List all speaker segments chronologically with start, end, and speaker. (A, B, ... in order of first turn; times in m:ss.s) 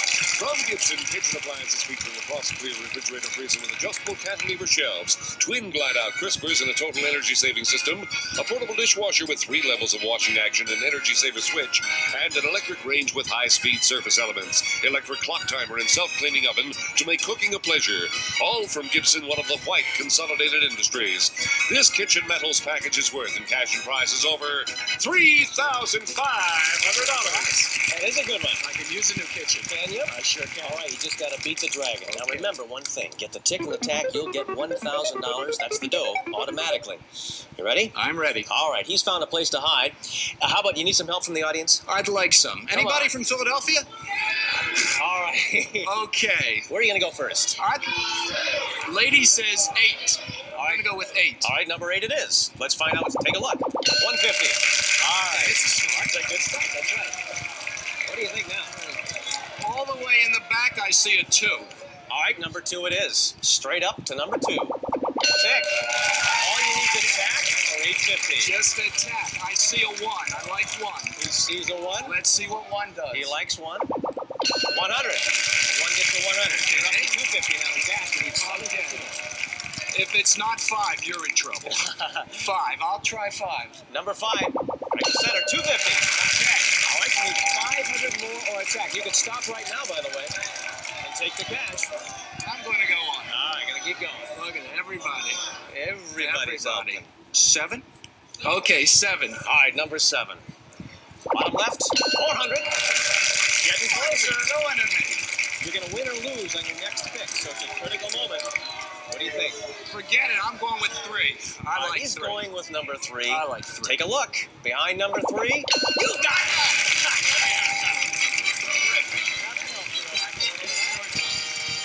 0:00.2-0:27.6 A
0:27.1-0:27.7 B
0:27.2-0:28.6 C
0:28.6-0:30.8 B
0:29.7-0:37.0 C
0:32.1-0:32.5 B
0:37.6-0:37.9 C
0:37.9-0:38.5 B
0:38.5-0:41.8 C
0:41.8-0:43.9 B
0:42.7-0:43.1 C
0:44.9-0:45.9 C
0:45.8-0:46.7 B
0:46.7-0:47.6 C
0:47.6-0:48.0 B
0:48.8-0:51.5 B
0:50.5-0:50.9 C
0:51.4-0:56.8 C
0:55.3-0:57.1 B
0:58.0-0:58.8 C
0:58.7-0:59.0 B
0:59.6-1:01.7 B
1:02.1-1:04.8 C
1:05.3-1:08.5 C
1:08.4-1:11.2 B
1:11.2-1:12.2 C
1:12.0-1:13.3 B
1:13.1-1:13.9 C
1:14.7-1:19.1 C
1:16.4-1:17.2 B
1:18.4-1:19.1 B
1:19.9-1:21.8 B
1:21.6-1:22.4 C
1:22.3-1:23.8 B
1:23.9-1:26.1 C
1:26.1-1:26.8 B
1:26.8-1:30.4 C
1:31.0-1:31.9 C
1:32.4-1:33.3 B
1:33.3-1:34.3 C
1:34.3-1:35.4 B
1:35.7-1:37.1 C
1:36.2-1:37.9 B
1:38.4-1:39.4 B
1:39.4-1:40.4 C
1:41.3-1:42.7 C
1:43.5-1:44.5 C
1:43.8-1:45.2 B
1:45.6-1:48.4 C
1:49.1-1:49.6 C
1:49.9-1:52.5 B
1:51.7-1:58.0 C
1:53.2-1:54.0 B
1:58.8-2:01.3 C
2:00.7-2:01.3 B